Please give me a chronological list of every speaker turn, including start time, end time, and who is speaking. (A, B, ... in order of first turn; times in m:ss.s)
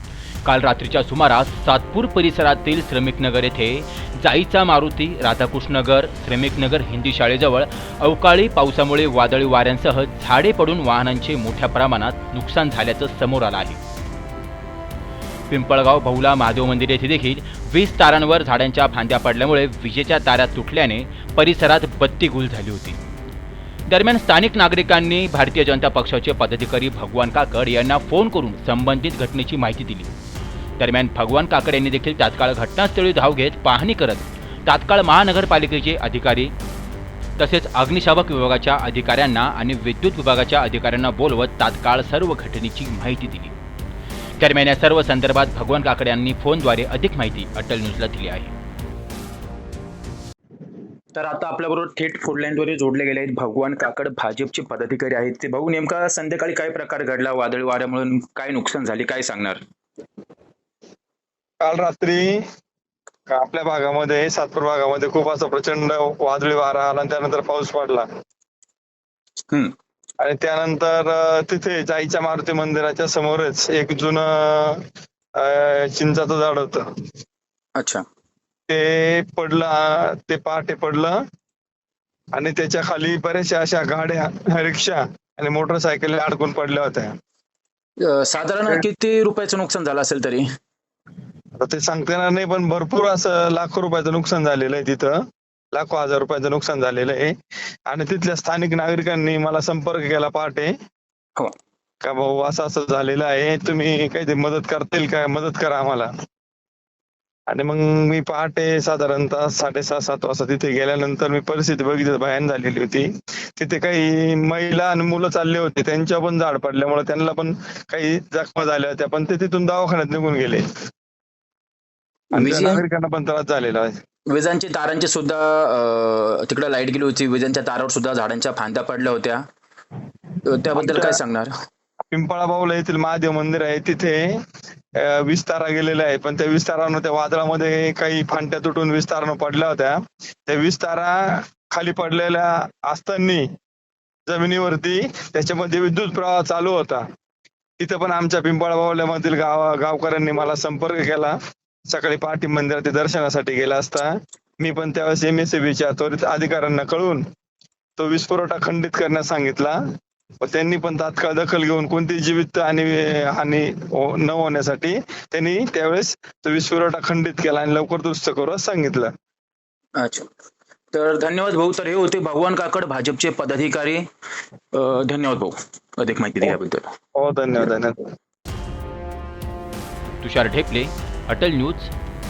0:00.4-0:13.8 A
0:15.5-0:23.0 A
0:23.9-0:30.1 A
0:30.8-0:36.5 A
0:37.4-0:43.5 A
0:44.4-0:48.5 A
0:51.2-0:59.6 B
1:01.6-1:02.4 C
1:03.3-1:08.1 C
1:10.2-1:14.8 C
1:15.4-1:16.9 C
1:17.8-1:18.0 B
1:18.7-1:21.2 C
1:22.4-1:27.1 C
1:28.0-1:30.5 B
1:31.6-1:35.2 C
1:35.7-1:37.3 C
1:37.9-1:40.7 C
1:42.0-1:46.1 C
1:47.5-1:53.1 C
1:53.6-2:00.6 C
2:02.3-2:02.8 B
2:02.3-2:04.0 C
2:04.3-2:09.4 B
2:10.4-2:11.5 B
2:10.8-2:11.2 C
2:12.1-2:14.2 C
2:15.0-2:23.4 C
2:24.3-2:27.0 C
2:27.8-2:31.4 C
2:31.9-2:37.2 C
2:38.0-2:39.8 C
2:40.4-2:49.1 C
2:50.0-2:50.2 B
2:50.9-2:54.0 B
2:54.7-2:56.9 B
2:57.2-2:58.0 C
3:00.2-3:01.9 A